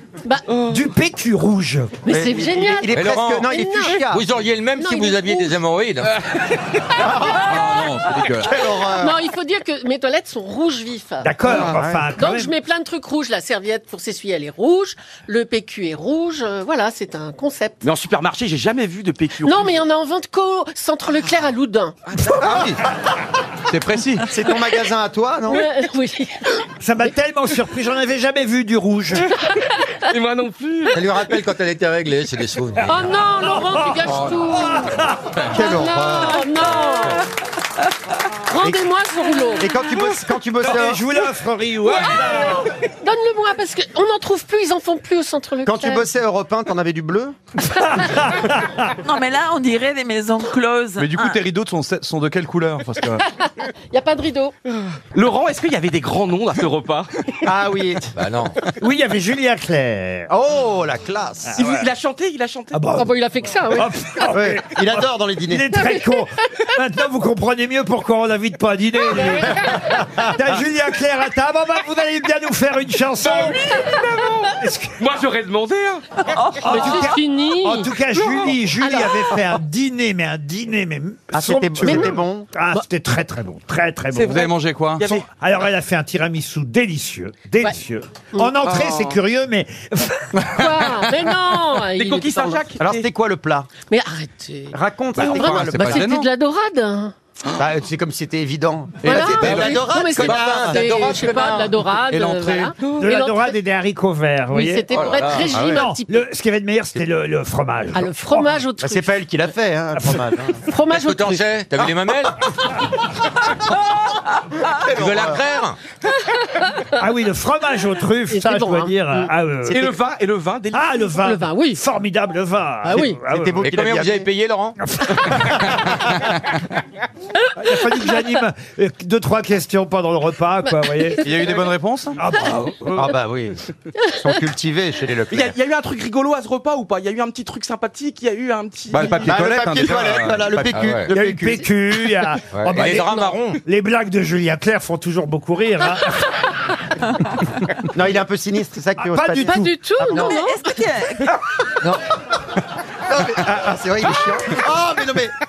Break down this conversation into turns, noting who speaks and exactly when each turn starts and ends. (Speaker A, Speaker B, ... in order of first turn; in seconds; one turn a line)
Speaker A: 0.2-0.5
Speaker B: 0.5-0.9
Speaker C: 0.7-2.0
Speaker A: 2.0-4.0
Speaker D: 2.1-4.2
Speaker E: 2.9-6.2
Speaker A: 4.7-5.6
Speaker A: 6.9-7.8
Speaker D: 7.0-7.5
Speaker F: 7.2-8.6
Speaker D: 8.4-9.2
Speaker A: 8.4-17.8
Speaker C: 11.2-12.5
Speaker D: 11.4-12.1
Speaker B: 17.8-19.8
Speaker A: 19.4-22.0
Speaker B: 22.1-22.7
Speaker D: 22.4-22.8
Speaker F: 23.7-24.3
Speaker D: 24.3-25.6
Speaker A: 25.5-27.1
Speaker C: 26.8-29.3
Speaker A: 29.3-30.0
Speaker B: 30.1-30.9
Speaker E: 30.9-33.0
Speaker A: 32.8-35.0
Speaker C: 33.4-35.4
Speaker F: 34.1-34.4
Speaker D: 35.5-36.4
Speaker A: 35.5-37.3
Speaker A: 38.4-40.0
Speaker D: 39.6-41.0
Speaker C: 40.6-42.6
Speaker A: 41.8-46.0
Speaker D: 45.6-47.4
Speaker C: 47.8-48.8
Speaker G: 49.0-51.4
Speaker F: 51.0-53.2
Speaker A: 53.2-54.6
Speaker B: 55.1-57.5
Speaker D: 57.4-58.1
Speaker E: 58.1-58.6
Speaker C: 58.7-60.3
Speaker D: 60.3-61.8
Speaker B: 61.5-62.9
Speaker C: 62.7-63.1
Speaker A: 62.9-64.1
Speaker C: 63.7-75.0
Speaker D: 64.3-65.7
Speaker B: 73.2-77.0
Speaker G: 76.3-77.0
Speaker C: 76.6-84.4
Speaker A: 76.7-77.9
Speaker B: 78.2-78.5
Speaker D: 81.3-82.5
Speaker A: 81.8-82.2
Speaker B: 84.1-85.3
Speaker F: 84.3-85.1
Speaker C: 85.0-90.3
Speaker B: 88.6-89.2
Speaker F: 90.4-90.8
Speaker A: 90.5-92.7
Speaker B: 91.9-93.0
Speaker D: 92.8-93.7
Speaker A: 93.9-97.1
Speaker D: 94.7-96.1
Speaker F: 95.2-96.3
Speaker D: 97.5-101.2
Speaker F: 99.0-99.8
Speaker A: 99.0-103.6
Speaker E: 99.4-102.2
Speaker F: 102.1-102.7
Speaker C: 103.0-104.9
Speaker A: 104.5-106.2
Speaker E: 104.9-105.5
Speaker D: 105.5-105.8
Speaker C: 105.5-108.4
Speaker A: 107.9-109.5
Speaker D: 108.8-110.6
Speaker A: 110.5-111.5
Speaker E: 110.9-112.5
Speaker D: 114.6-115.4
Speaker E: 114.8-115.8
Speaker A: 116.4-116.8
Speaker C: 116.9-119.9
Speaker A: 118.3-119.3
Speaker B: 119.7-121.2
Speaker C: 120.7-123.7
Speaker A: 121.2-121.8
Speaker A: 122.8-123.2
Speaker D: 122.8-124.3
Speaker E: 123.6-124.8
Speaker C: 124.8-125.9
Speaker F: 125.8-126.4
Speaker C: 127.5-131.5
Speaker F: 131.2-132.2
Speaker C: 132.2-133.2
Speaker D: 132.9-135.5
Speaker B: 135.3-139.4
Speaker F: 138.9-140.8
Speaker D: 139.2-141.6
Speaker E: 140.7-141.1
Speaker C: 141.1-146.3
Speaker E: 142.5-143.6
Speaker D: 147.9-150.4
Speaker C: 149.0-149.7
Speaker A: 149.4-150.7
Speaker G: 150.1-151.3
Speaker D: 153.1-155.3